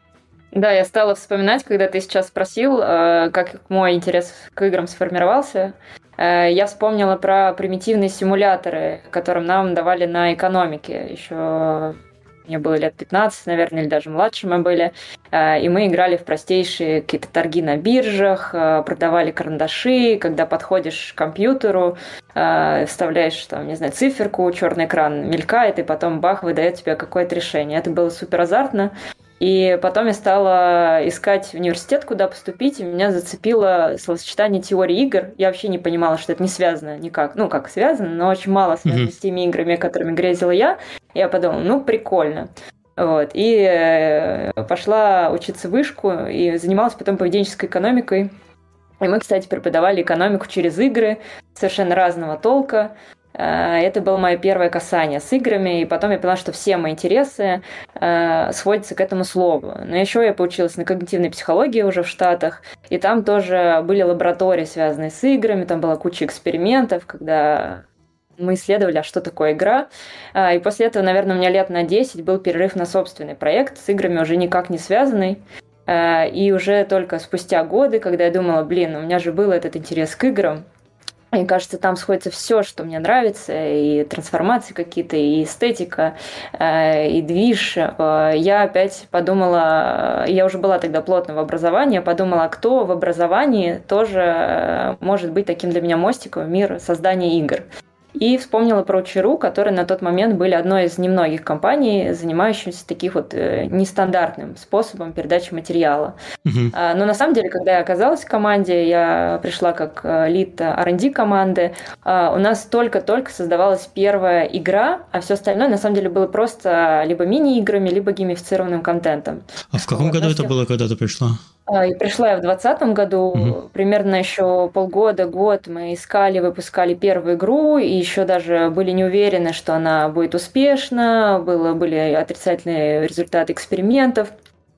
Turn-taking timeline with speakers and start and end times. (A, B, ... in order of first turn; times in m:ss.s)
0:00.5-0:48.3 A
0:38.9-0:39.1 B
0:49.0-1:07.8 A
1:08.4-1:20.6 A
1:21.3-1:46.2 A
1:46.4-1:46.7 B
1:46.7-2:00.6 A
1:59.7-2:01.4 B
2:01.7-2:14.3 A